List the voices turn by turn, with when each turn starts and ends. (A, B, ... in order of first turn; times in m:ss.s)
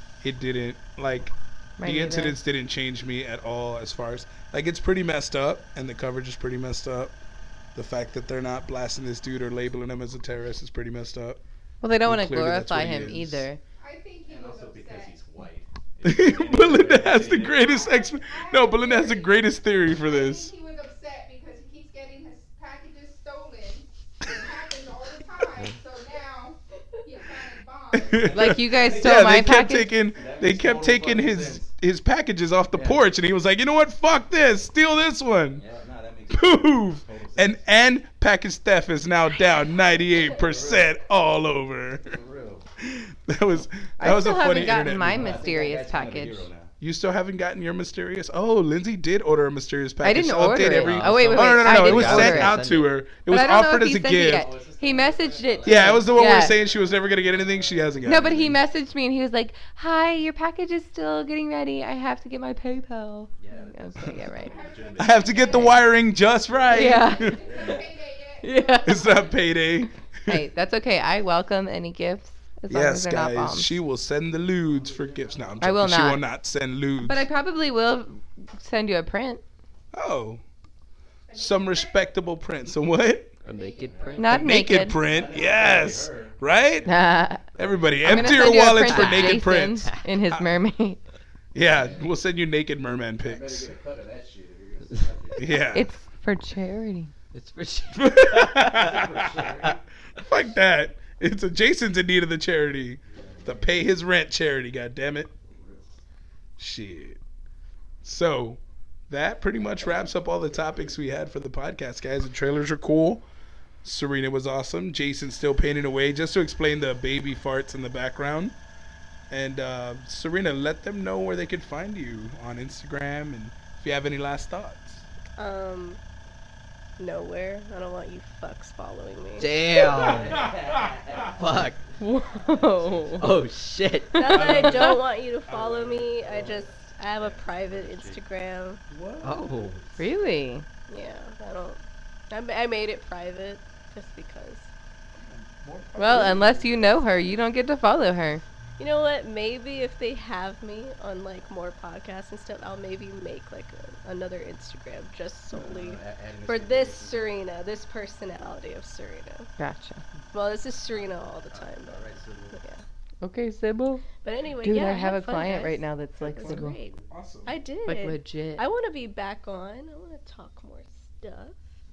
0:00.2-0:07.2 A
0:01.8-0:02.4 B
0:07.8-0:11.4 A
0:11.8-0:13.6 B
0:12.0-0:13.5 A
0:13.8-0:15.2 C
0:14.3-0:17.8 D
0:16.0-0:20.5 A
0:17.4-0:28.5 C
0:27.9-0:35.6 A
0:28.1-0:31.7 D
0:28.3-0:29.9 B
0:32.7-0:33.0 D
0:35.5-0:37.6 D
0:36.3-0:42.2 A
0:40.4-0:40.9 D
0:42.1-0:42.7 D
0:42.8-0:45.4 A
0:44.0-0:46.5 B
0:44.7-0:46.7 D
0:46.8-0:54.5 A
0:50.0-0:52.6 B
0:50.6-0:52.9 E
0:53.3-0:56.6 B
0:54.2-0:58.4 D
0:55.6-0:58.6 A
0:58.0-1:04.6 B
1:03.4-1:07.8 D
1:04.3-1:05.9 C
1:05.0-1:07.6 A
1:05.5-1:05.8 B
1:06.7-1:09.4 C
1:06.7-1:07.4 B
1:08.4-1:09.2 B
1:08.8-1:10.4 A
1:10.3-1:13.8 B
1:12.7-1:17.3 A
1:14.7-1:15.6 D
1:15.6-1:16.2 B
1:17.0-1:19.4 B
1:19.9-1:20.4 A
1:21.3-1:22.0 C
1:21.4-1:23.4 A
1:23.4-1:24.5 E
1:23.5-1:24.2 C
1:23.8-1:24.2 D
1:24.2-1:25.0 B
1:24.3-1:26.9 A
1:25.0-1:26.4 D
1:25.3-1:25.7 C
1:26.9-1:27.5 B
1:27.4-1:30.5 A
1:27.6-1:27.9 D
1:28.0-1:31.0 B
1:31.5-1:33.7 A
1:31.6-1:32.1 D
1:33.2-1:35.6 D
1:35.4-1:35.9 A
1:35.5-1:37.1 B
1:37.3-1:39.6 E
1:37.9-1:39.6 A
1:38.7-1:39.8 D
1:40.2-1:45.3 A
1:43.1-1:43.8 D
1:45.5-1:46.0 D
1:46.6-1:47.2 A
1:48.0-1:53.2 A
1:53.8-1:58.6 A
1:59.3-2:05.0 A
2:05.4-2:06.0 F
2:07.0-2:09.6 F
2:09.4-2:10.5 E
2:09.7-2:13.4 D
2:09.8-2:11.3 A
2:11.4-2:11.8 E
2:12.0-2:13.3 B
2:13.2-2:14.5 E
2:14.1-2:15.0 B
2:14.1-2:18.8 F
2:14.3-2:16.6 A
2:17.2-2:18.2 D
2:18.9-2:20.0 A
2:19.2-2:19.8 E
2:20.0-2:20.6 B
2:20.9-2:21.8 F
2:22.3-2:24.7 F
2:25.3-2:27.0 A
2:26.0-2:28.4 B
2:28.8-2:39.5 F
2:35.5-2:37.4 D
2:39.6-2:40.0 B
2:40.3-2:42.8 F
2:40.9-2:42.6 D
2:43.2-2:44.1 B
2:44.2-2:51.6 F
2:44.6-2:46.8 B
2:46.4-2:47.5 A
2:47.9-2:48.6 B